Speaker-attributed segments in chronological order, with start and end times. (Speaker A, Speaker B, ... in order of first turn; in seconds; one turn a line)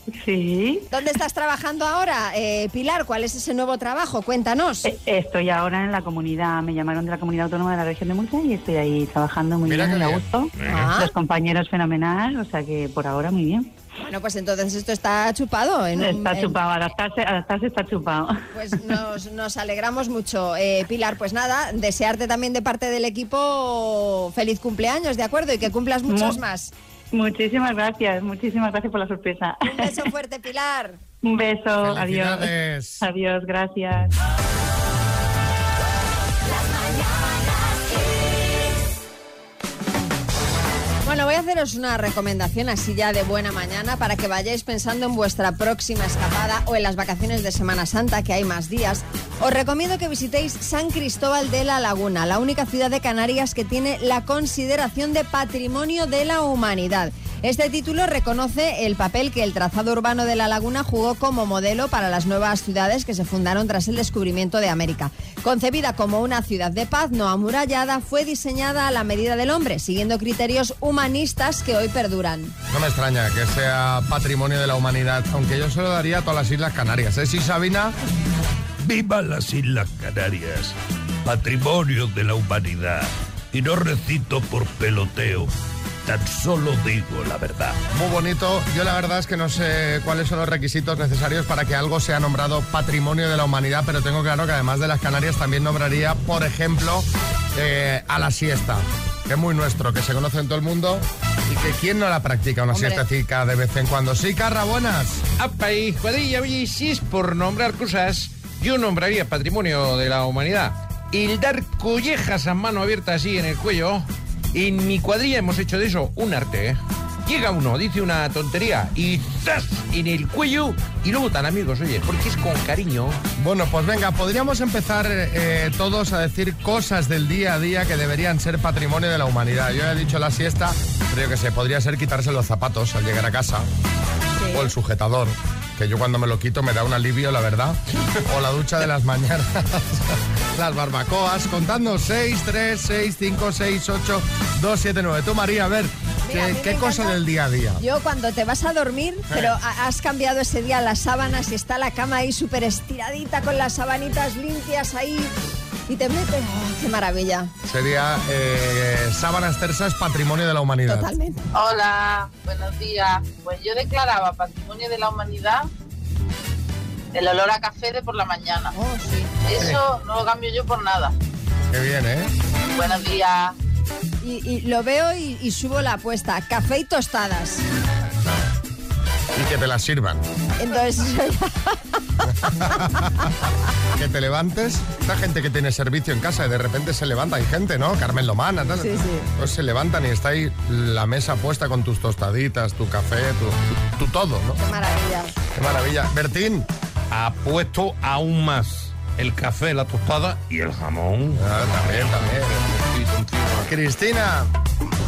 Speaker A: 0.2-0.9
Speaker B: 0.9-4.8
Speaker A: 4.8-13.7
Speaker C: 9.6-10.3
Speaker D: 10.6-10.8
Speaker B: 10.7-11.1
Speaker B: 14.0-16.6
Speaker A: 16.0-18.4
Speaker B: 18.5-26.7
Speaker A: 26.1-26.4
Speaker A: 27.1-30.1
Speaker B: 29.6-31.0
Speaker A: 31.2-34.1
Speaker C: 31.8-33.0
Speaker B: 41.0-72.5
Speaker C: 72.7-78.0
Speaker D: 78.8-85.5
Speaker D: 86.0-87.8
Speaker C: 87.9-105.2
Speaker B: 102.7-103.0
Speaker E: 105.4-123.2
Speaker C: 123.4-133.7
Speaker B: 134.4-134.7
Speaker C: 134.5-147.8
Speaker B: 146.2-147.2
Speaker B: 147.8-155.3
Speaker C: 149.3-149.6
Speaker B: 155.9-157.5
Speaker C: 157.6-161.1
Speaker B: 160.9-161.5
Speaker F: 161.5-165.7
Speaker F: 167.1-168.7
Speaker B: 168.7-169.3
Speaker F: 169.4-171.1
Speaker C: 169.6-169.8
Speaker C: 171.7-172.3
Speaker F: 172.7-173.5
Speaker B: 174.2-177.6
Speaker C: 179.3-180.2
Speaker B: 180.6-181.8
Speaker C: 182.3-183.3
Speaker C: 183.9-194.6
Speaker B: 188.8-189.3
Speaker B: 194.6-195.3
Speaker C: 195.5-196.7
Speaker E: 197.1-197.8
Speaker D: 198.0-199.1
Speaker E: 198.8-200.2
Speaker D: 200.3-203.7
Speaker C: 201.3-202.6
Speaker C: 203.6-204.5